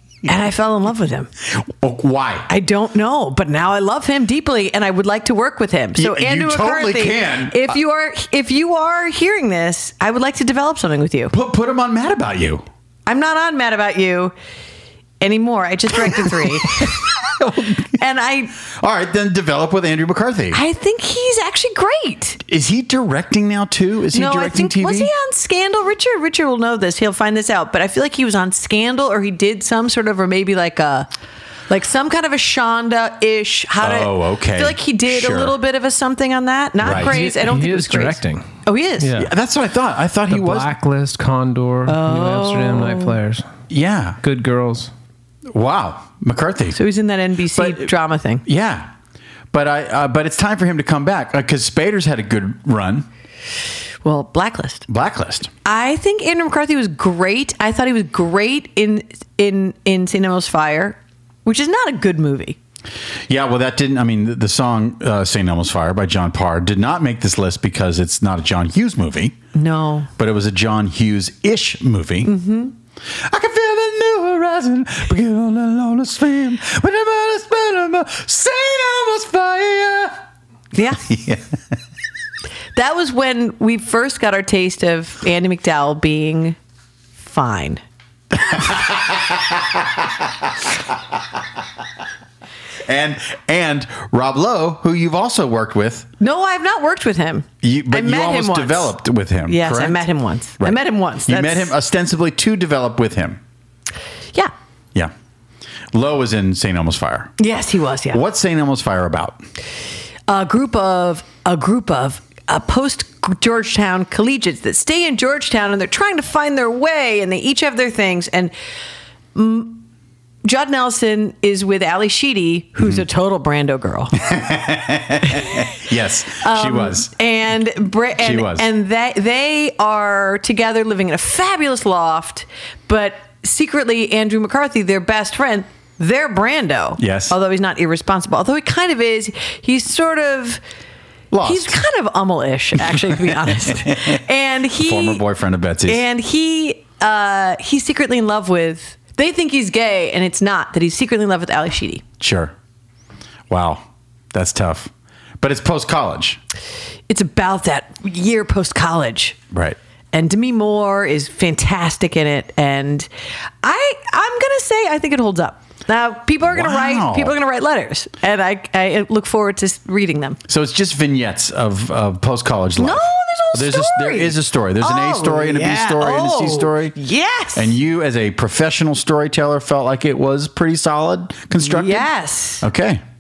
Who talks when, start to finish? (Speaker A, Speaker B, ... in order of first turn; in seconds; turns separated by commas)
Speaker A: 0.2-1.3, Speaker B: 1.6-2.5, Speaker A: 2.5-11.3, Speaker B: 6.0-7.7, Speaker B: 11.3-12.6, Speaker A: 13.1-14.3, Speaker A: 15.2-17.0, Speaker B: 16.7-17.9, Speaker A: 18.0-18.5, Speaker B: 18.8-20.6, Speaker A: 20.5-22.4, Speaker B: 22.5-25.1, Speaker A: 24.1-31.1, Speaker A: 31.7-39.2, Speaker B: 33.8-35.6, Speaker B: 36.8-37.1, Speaker C: 36.9-39.3, Speaker B: 39.2-40.7, Speaker C: 40.3-43.5, Speaker A: 41.9-43.2, Speaker B: 43.7-44.2, Speaker C: 44.2-44.9, Speaker B: 45.5-46.8, Speaker A: 46.8-48.4, Speaker B: 47.5-47.9, Speaker B: 48.5-48.9, Speaker B: 49.5-53.1, Speaker A: 54.0-54.9, Speaker B: 54.9-55.5, Speaker A: 55.6-62.6, Speaker B: 63.3-69.4, Speaker A: 69.5-70.1, Speaker B: 70.2-72.3, Speaker A: 72.2-72.7, Speaker B: 73.3-80.2, Speaker A: 80.7-81.0, Speaker B: 81.0-81.6, Speaker A: 82.8-86.6, Speaker A: 87.2-87.8, Speaker B: 88.4-90.5, Speaker B: 92.9-96.1, Speaker A: 96.2-98.9, Speaker B: 97.6-100.0, Speaker A: 99.5-101.7, Speaker B: 100.6-103.4, Speaker B: 105.9-107.3, Speaker A: 107.4-108.2, Speaker B: 108.1-109.4, Speaker A: 110.3-118.5, Speaker A: 119.3-119.8, Speaker A: 120.5-124.1, Speaker B: 124.2-127.1, Speaker A: 126.4-140.6, Speaker B: 128.2-128.7, Speaker B: 137.0-137.3, Speaker B: 141.3-141.8, Speaker A: 141.4-145.2, Speaker B: 143.8-144.2, Speaker B: 144.8-146.0, Speaker A: 145.9-152.0, Speaker B: 152.2-152.5, Speaker B: 153.5-156.4, Speaker A: 157.1-159.4, Speaker B: 159.5-159.8, Speaker A: 160.1-163.1, Speaker A: 163.6-170.4, Speaker B: 166.5-167.3, Speaker B: 170.5-176.9, Speaker A: 172.8-177.8, Speaker B: 177.6-182.1, Speaker A: 181.6-182.6, Speaker B: 182.6-183.0